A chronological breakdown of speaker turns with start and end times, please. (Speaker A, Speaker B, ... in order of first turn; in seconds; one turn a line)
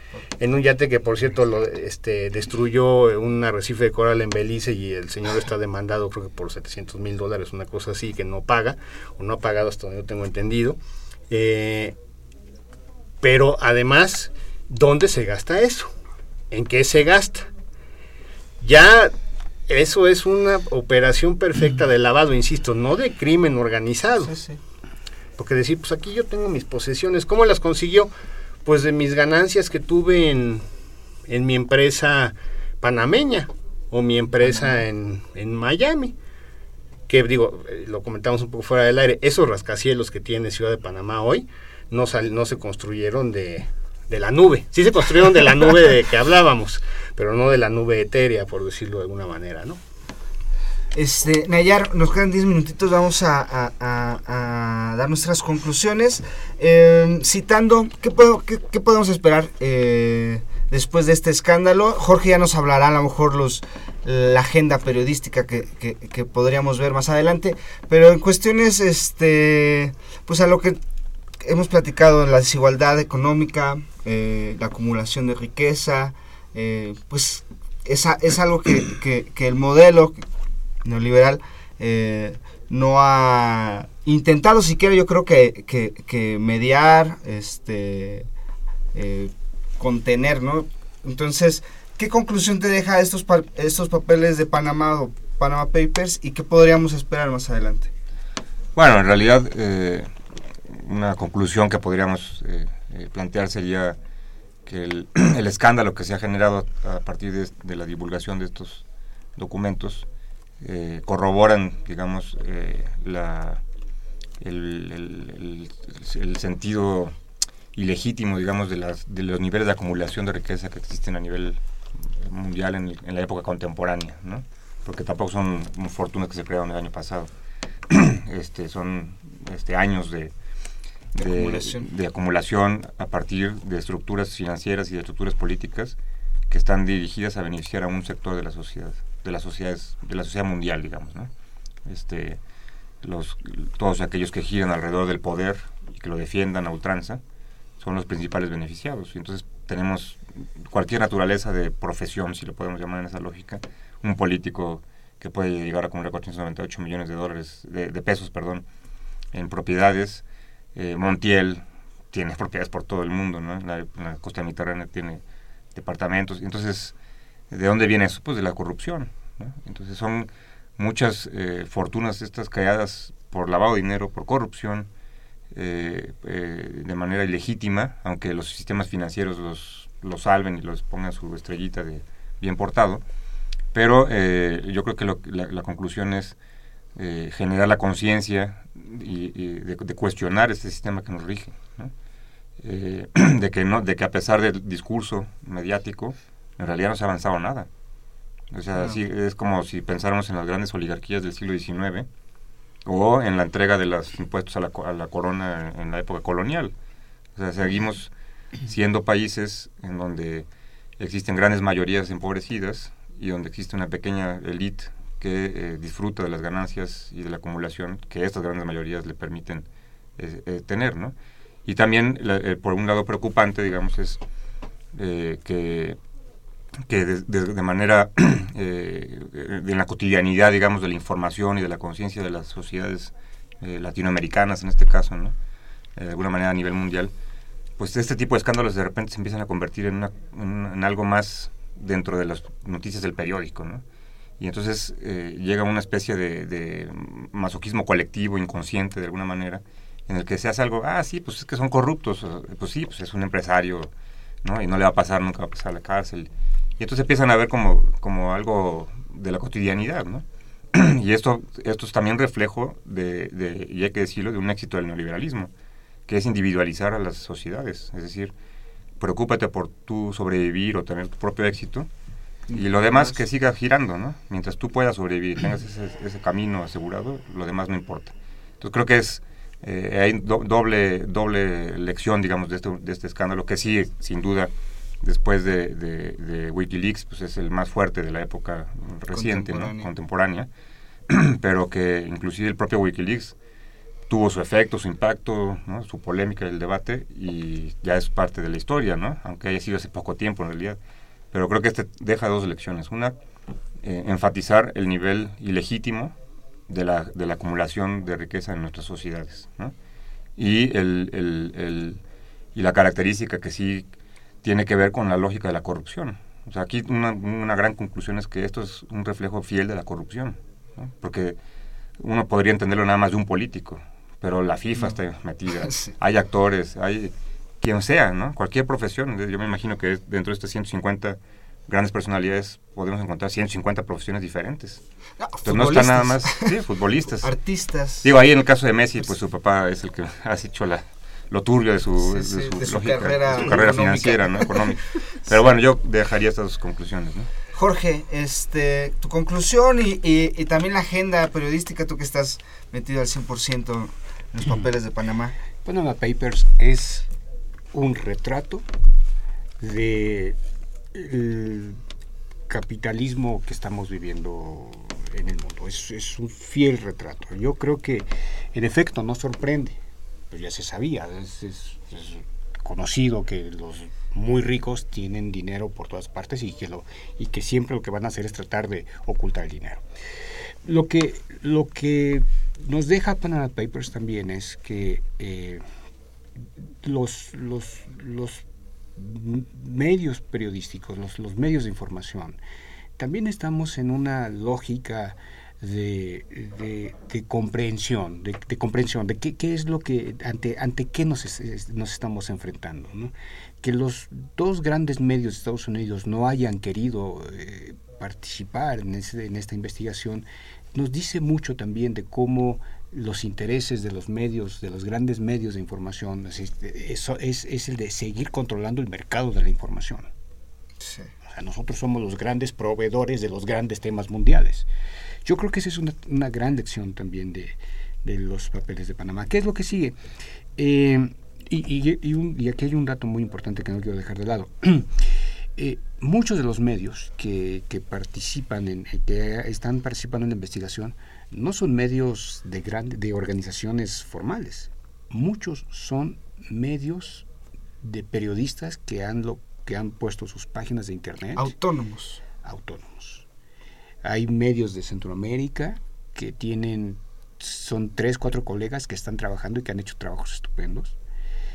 Speaker A: 0.4-10.8
Speaker A: 11.3-11.9
Speaker A: 13.2-15.9
Speaker A: 16.5-17.5
Speaker A: 18.6-19.1
Speaker A: 19.7-24.3
Speaker B: 24.3-24.6
Speaker A: 25.4-28.1
Speaker A: 28.6-30.6
Speaker A: 31.3-36.1
Speaker A: 37.1-49.8
Speaker B: 50.9-70.8
Speaker B: 71.4-80.2
Speaker B: 80.8-88.3
Speaker B: 88.9-97.9
Speaker C: 98.8-100.1
Speaker C: 100.7-104.0
Speaker C: 104.7-108.8
Speaker C: 109.4-110.1
Speaker C: 110.6-113.6
Speaker C: 114.4-117.2
Speaker C: 117.7-121.6
Speaker C: 122.2-127.3
Speaker C: 127.9-130.3
Speaker B: 131.2-131.9
Speaker C: 131.2-136.0
Speaker C: 136.5-141.3
Speaker C: 141.9-142.4
Speaker C: 143.0-147.2
Speaker C: 147.8-158.7
Speaker C: 159.3-160.2
Speaker C: 160.8-165.2
Speaker C: 165.7-166.9
Speaker C: 167.5-174.9
Speaker C: 175.5-183.0
Speaker C: 183.7-186.4
Speaker C: 187.0-191.9
Speaker C: 192.6-197.7
Speaker C: 198.5-202.1
Speaker C: 202.8-206.7
Speaker C: 207.4-208.1
Speaker C: 208.6-210.5
Speaker C: 211.0-219.7
Speaker C: 220.2-221.2
Speaker C: 221.7-224.2
Speaker C: 224.9-226.0
Speaker C: 226.9-235.3
Speaker C: 236.0-237.1
Speaker C: 237.8-243.8
Speaker C: 244.4-253.9
Speaker C: 254.4-265.5
Speaker C: 266.1-268.3
Speaker C: 269.0-271.9
Speaker B: 272.5-273.2
Speaker C: 272.5-290.5
Speaker B: 289.1-289.9
Speaker C: 291.1-293.4
Speaker C: 294.1-300.8
Speaker C: 301.3-303.2
Speaker C: 303.8-306.1
Speaker C: 306.7-309.7
Speaker C: 310.4-312.0
Speaker C: 312.6-313.9
Speaker C: 314.4-321.4
Speaker C: 322.0-334.8
Speaker B: 325.6-325.9
Speaker B: 335.2-336.6
Speaker C: 335.4-337.3
Speaker B: 337.2-338.1
Speaker C: 338.0-347.3
Speaker B: 342.0-344.7
Speaker B: 347.6-355.3
Speaker D: 355.6-357.1
Speaker D: 357.7-358.7
Speaker D: 359.6-360.4
Speaker D: 360.9-361.8
Speaker D: 362.5-369.8
Speaker D: 370.3-379.8
Speaker D: 380.6-385.6
Speaker D: 386.8-388.4
Speaker D: 389.0-392.4
Speaker D: 393.0-420.1
Speaker B: 420.8-421.1
Speaker D: 421.3-424.7
Speaker D: 425.2-430.0
Speaker D: 430.6-447.3
Speaker D: 447.8-451.5
Speaker B: 451.4-452.2
Speaker D: 452.4-453.3
Speaker D: 454.0-461.0